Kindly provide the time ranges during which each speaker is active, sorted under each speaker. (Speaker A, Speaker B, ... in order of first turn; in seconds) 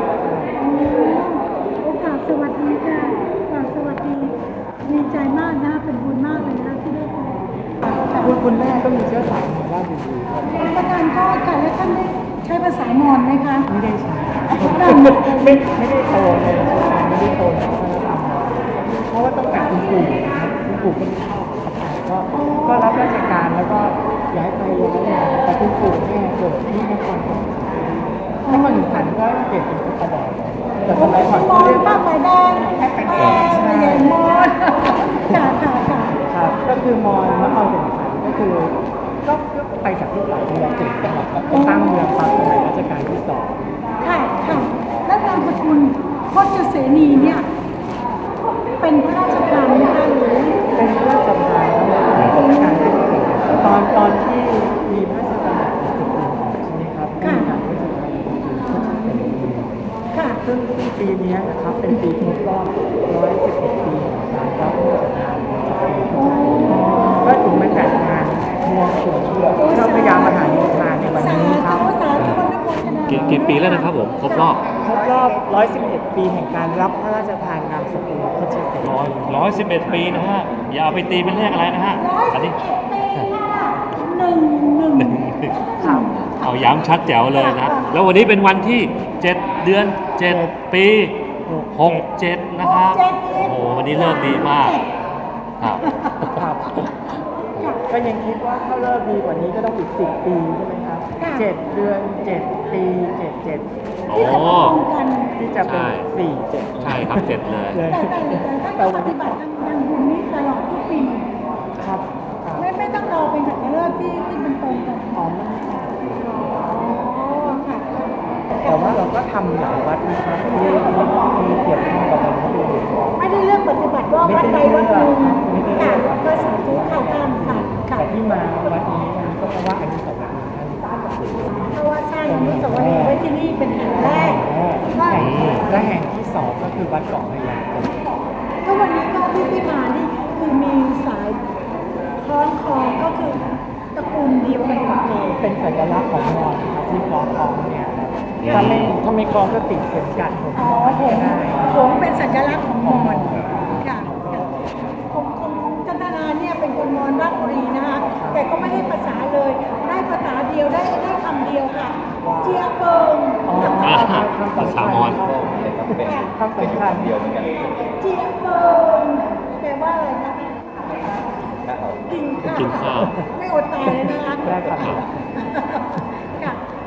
Speaker A: 0.2-0.6, 8.1-10.7, 13.7-32.0, 32.7-34.2, 35.2-43.6, 50.7-59.8, 60.4-72.0, 72.8-73.5, 74.8-80.3, 85.8-86.2, 90.2-90.5, 91.5-92.1, 96.3-96.8, 97.9-103.7, 105.3-109.3, 111.8-112.7, 115.1-116.0, 118.6-123.2, 124.2-133.3, 133.9-138.0, 145.2-152.0, 152.8-154.4, 158.0-158.9, 162.2-162.6, 163.4-167.3, 173.0-173.3, 173.9-175.3
Speaker B: 0.6-8.3, 10.5-13.7, 14.6-15.6, 22.3-23.1, 28.4-29.1, 30.9-36.1, 41.5-42.0, 44.0-47.5, 48.8-50.7, 57.2-57.5, 60.1-60.4, 66.3-66.9, 69.6-74.5, 82.0-85.2, 85.8-86.2, 87.3-87.9, 92.6-94.9, 95.7-96.3, 97.4-97.8, 101.2-101.5, 104.1-105.3, 107.9-111.3, 112.6-115.2, 116.5-119.0, 123.2-128.1, 131.7-135.2, 138.6-141.4, 142.2-145.2, 150.5-154.5, 155.1-164.0, 166.0-166.3, 167.4-170.7, 171.9-174.6, 175.3-176.6
Speaker C: 52.1-52.4, 72.2-72.4, 73.1-74.7, 78.8-82.5, 85.0-85.6, 86.2-94.8, 95.6-97.0, 104.1-104.8, 105.6-106.1, 106.8-107.8, 135.1-135.7, 148.4-148.9, 163.8-165.3, 172.5-173.2, 174.8-175.0